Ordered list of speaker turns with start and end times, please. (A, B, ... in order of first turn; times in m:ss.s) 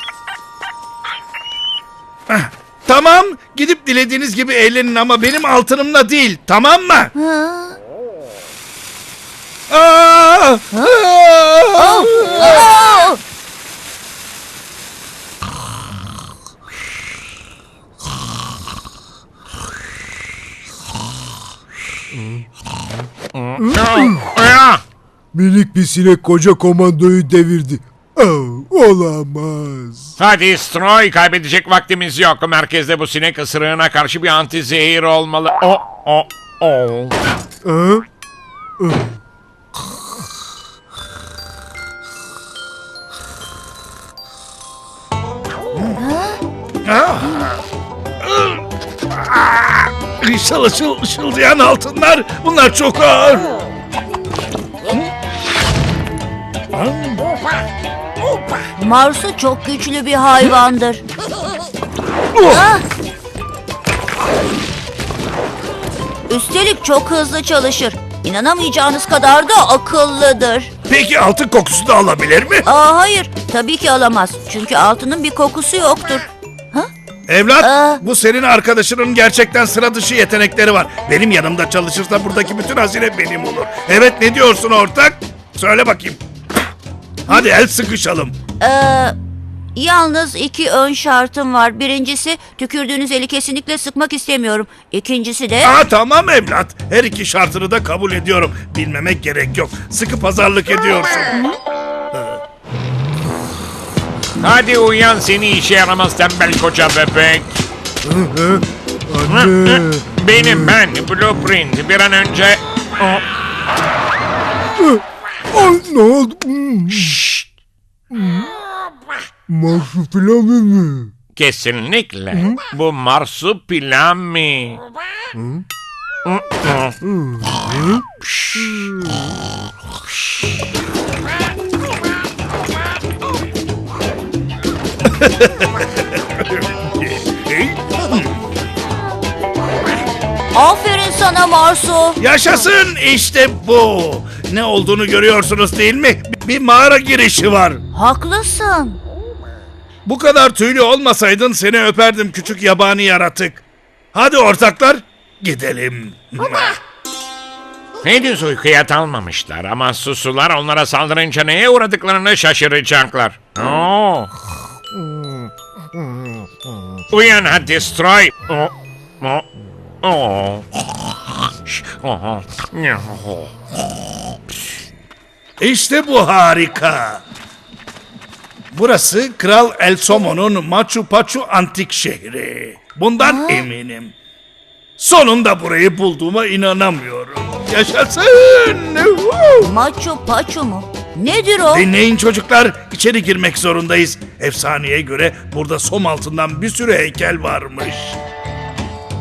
0:02.3-0:07.1 A
0:07.2-0:07.8 B
0:09.7-0:12.7 A
0:11.8-0:13.2 B
0:22.1-0:22.4 C
0:23.3-0:24.8 D
0:23.6-0:24.3 C
0:25.3-0:30.1 C
0:30.2-0:37.2 D
0:37.6-0:38.0 C
0:38.8-0:39.1 C
0:45.7-0:46.0 A
0:46.0-0:46.4 B
0:46.8-0:47.6 A
0:48.2-0:53.6 A
0:56.7-0:57.2 A
0:58.8-1:01.0 B
1:02.3-1:02.6 A
1:02.5-1:02.8 B
1:06.3-1:10.7 B
1:10.9-1:12.6 A
1:12.6-1:16.9 B
1:17.3-1:26.2 A
1:17.6-1:18.0 B
1:27.2-1:28.3 A
1:28.6-1:29.2 B
1:29.7-1:35.7 B
1:35.6-1:41.4 A
1:42.1-1:42.4 A
1:44.4-1:47.6 D
1:48.0-1:50.7 C
1:49.3-1:53.2 D
1:54.8-1:57.2 C
1:57.0-1:57.4 D
1:58.1-1:58.5 C
1:59.5-2:01.1 C
2:01.4-2:04.8 D
2:05.3-2:05.6 C
2:06.2-2:07.0 D
2:07.0-2:09.3 C
2:08.2-2:08.8 D
2:15.0-2:18.4 A
2:20.5-2:22.2 B
2:22.2-2:27.8 A
2:27.9-2:29.0 B
2:30.0-2:36.8 A
2:38.0-2:44.3 D
2:45.0-2:45.4 D
2:47.1-2:49.4 D
2:50.0-2:50.6 D
2:51.6-2:53.5 D
2:55.6-2:57.2 A
2:58.7-3:04.1 A
3:03.2-3:03.6 B
3:05.0-3:09.7 A
3:09.6-3:11.9 B
3:11.7-3:18.2 A